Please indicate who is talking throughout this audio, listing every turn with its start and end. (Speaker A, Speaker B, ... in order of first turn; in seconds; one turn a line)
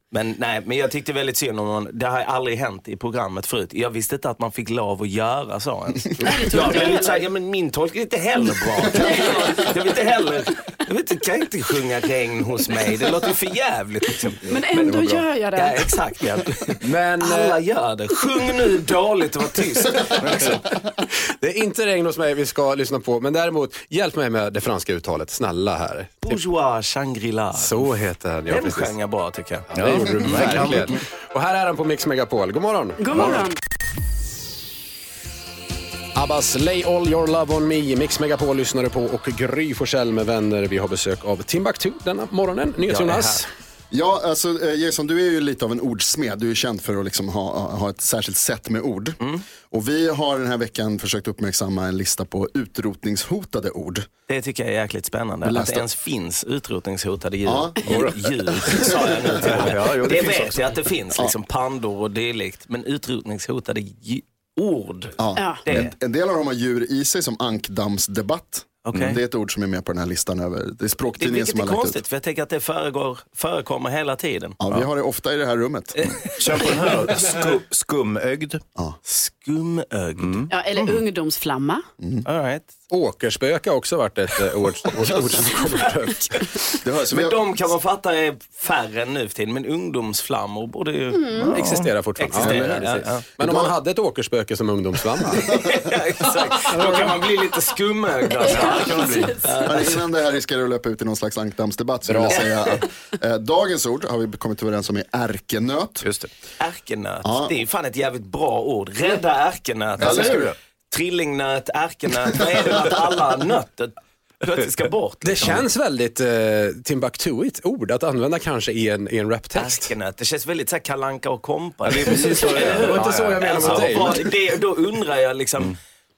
Speaker A: 0.1-14.4
Speaker B: 6.2-7.2
Speaker B: 8.9-9.6
Speaker B: 14.5-15.9
Speaker C: 14.7-15.2
Speaker A: 15.6-20.5
Speaker D: 16.8-17.6
Speaker E: 20.3-20.5
Speaker D: 21.4-26.4
Speaker A: 26.2-27.9
Speaker D: 27.5-28.9
Speaker A: 28.5-29.7
Speaker D: 29.7-33.5
Speaker E: 29.8-30.9
Speaker A: 30.3-30.6
Speaker B: 33.0-33.6
Speaker D: 36.1-43.5
Speaker A: 42.9-43.4
Speaker C: 43.9-49.2
Speaker C: 49.7-54.1
Speaker A: 54.3-65.9
Speaker C: 55.4-55.9
Speaker C: 57.5-59.7
Speaker E: 57.8-60.6
Speaker C: 65.2-72.0
Speaker B: 65.4-65.6
Speaker A: 68.8-69.2
Speaker A: 71.2-74.6
Speaker C: 74.6-76.0
Speaker A: 76.0-76.7
Speaker E: 76.3-78.6
Speaker A: 79.1-81.0
Speaker E: 80.2-80.5
Speaker B: 80.5-81.8
Speaker A: 82.2-82.7
Speaker D: 82.9-86.6
Speaker C: 86.8-87.4
Speaker A: 87.1-91.4
Speaker B: 91.1-91.5
Speaker E: 91.4-91.9
Speaker D: 91.5-95.6
Speaker A: 92.2-93.3
Speaker C: 92.4-92.7
Speaker C: 93.4-93.7
Speaker A: 95.5-100.0
Speaker D: 96.7-97.1
Speaker E: 98.4-99.4
Speaker C: 99.6-106.1
Speaker D: 102.1-102.5
Speaker E: 106.0-106.3
Speaker A: 106.6-115.6
Speaker C: 107.2-107.5
Speaker C: 110.0-110.5
Speaker E: 110.0-110.5
Speaker D: 115.2-119.9
Speaker A: 119.6-125.8
Speaker E: 121.8-123.8
Speaker D: 122.7-124.3